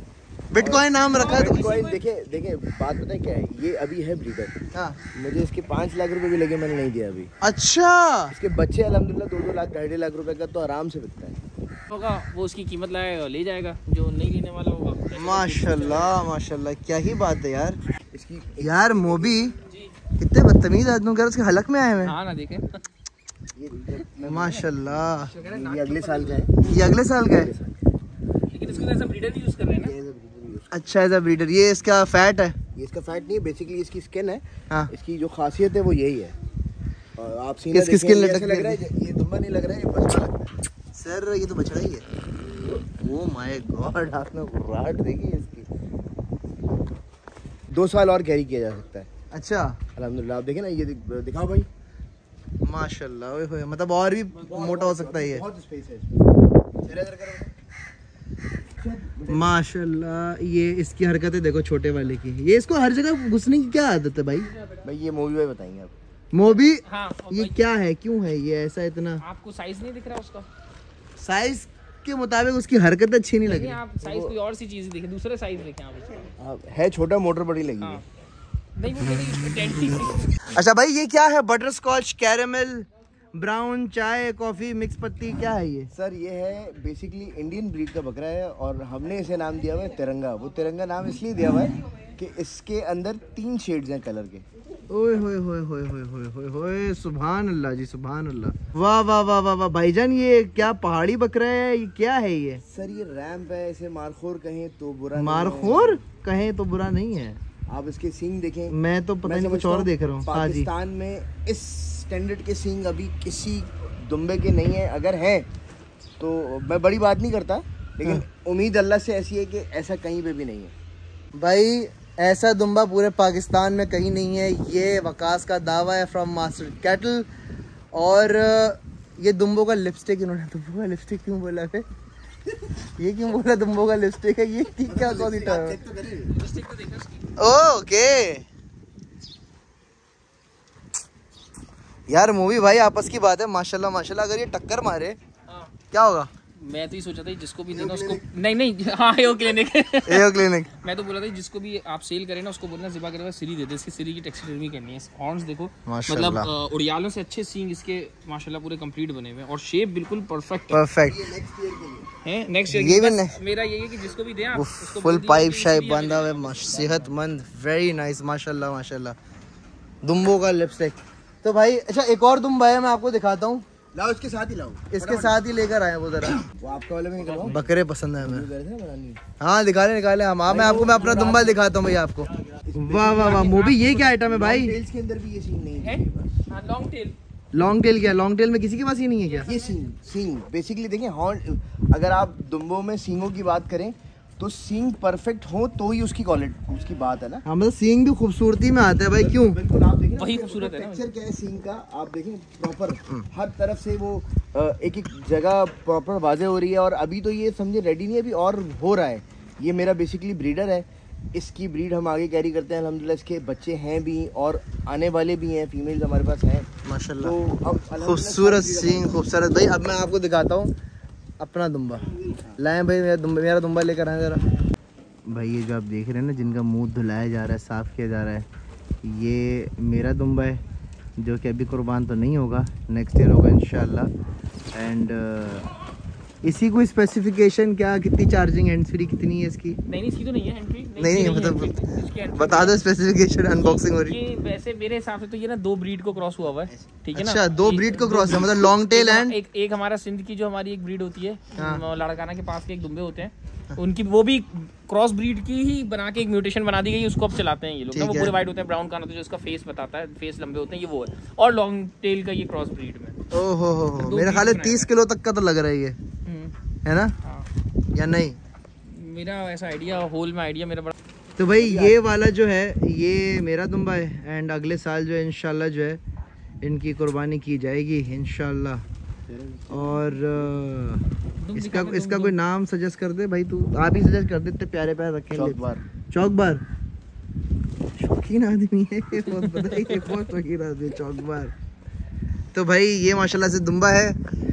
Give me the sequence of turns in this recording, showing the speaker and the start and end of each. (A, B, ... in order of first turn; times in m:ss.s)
0:00.5-0:01.8 A
0:00.6-0:04.5 B
0:01.1-0:02.0 C
0:05.1-0:07.3 B
0:07.4-0:08.3 A
0:08.3-0:11.4 B
0:11.9-0:16.2 C
0:15.2-0:17.8 A
0:18.1-0:19.4 B
0:18.6-0:19.5 A
0:19.7-0:19.9 C
0:20.2-0:22.2 A
0:22.0-0:22.8 C
0:23.6-0:26.6 B
0:24.2-0:25.3 A
0:25.3-0:26.5 C
0:26.6-0:27.5 A
0:27.4-0:27.7 B
0:28.5-0:30.0 C
0:29.7-0:30.7 B
0:30.7-0:32.6 A
0:32.8-0:36.4 B
0:37.2-0:40.5 B
0:37.7-0:38.8 A
0:41.0-0:42.1 A
0:43.0-0:45.7 A
0:47.7-0:49.1 B
0:49.3-0:49.8 A
0:50.0-0:51.7 B
0:52.6-0:55.4 A
0:54.4-0:56.4 B
0:56.9-0:57.5 A
0:58.8-0:59.6 B
0:59.3-1:04.5 A
1:04.8-1:05.9 B
1:06.3-1:09.2 A
1:06.8-1:07.6 C
1:09.2-1:10.5 C
1:11.2-1:13.8 A
1:13.4-1:16.3 C
1:14.0-1:14.4 B
1:16.4-1:18.0 B
1:18.8-1:20.4 C
1:19.7-1:25.9 A
1:25.9-1:34.4 B
1:34.9-1:42.6 A
1:42.7-1:46.0 B
1:45.2-1:47.4 A
1:47.7-1:55.5 B
1:48.7-1:50.7 A
1:56.2-2:00.7 B
2:01.4-2:07.3 A
2:08.0-2:11.8 A
2:13.0-2:15.8 A
2:14.9-2:16.4 B
2:16.4-2:17.2 C
2:17.4-2:18.5 A
2:22.1-2:25.2 A
2:25.9-2:26.3 A
2:26.6-2:40.8 C
2:27.7-2:28.2 B
2:30.1-2:30.7 A
2:35.9-2:36.5 A
2:40.7-2:41.3 A
2:41.1-2:42.1 B
2:42.2-2:47.1 C
2:42.7-2:43.4 A
2:44.5-2:49.2 A
2:50.0-2:53.6 A
2:53.9-2:55.4 B
2:54.9-2:56.4 A
2:56.6-2:57.7 B
2:57.2-2:57.5 C
2:57.4-2:58.5 A
2:58.2-2:59.2 B
2:59.4-3:04.8 A
3:00.5-3:01.6 B
3:02.6-3:03.4 B
3:03.0-3:04.2 C
3:04.2-3:06.4 B
3:05.8-3:07.2 C
3:07.5-3:09.5 A
3:09.4-3:17.4 B
3:17.5-3:19.6 A
3:19.1-3:36.7 B
3:20.2-3:21.1 C
3:36.8-3:37.4 A
3:37.2-3:39.2 B
3:38.0-3:40.7 A
3:41.4-3:44.4 A
3:45.3-3:48.5 A
3:49.0-3:50.6 A
3:51.2-3:54.1 A
3:54.7-3:55.7 A
3:56.4-3:59.8 A
3:59.8-4:02.9 C
4:01.0-4:01.8 A
4:02.4-4:04.2 A
4:03.5-4:23.2 C
4:07.1-4:09.4 A
4:11.6-4:11.8 A
4:17.9-4:18.3 A
4:23.3-4:26.0 A
4:24.0-4:24.9 C
4:26.3-4:26.5 C
4:26.8-4:27.2 A
4:28.0-4:28.4 A
4:28.8-4:31.0 C
4:31.4-4:36.0 A
4:31.6-4:32.0 B
4:36.6-4:38.8 A
4:39.3-4:40.1 B
4:39.7-4:41.0 A
4:41.4-4:42.4 C
4:41.6-4:46.6 A
4:45.3-4:45.8 B
4:48.0-4:51.5 A
4:49.2-4:50.2 C
4:52.5-4:54.2 A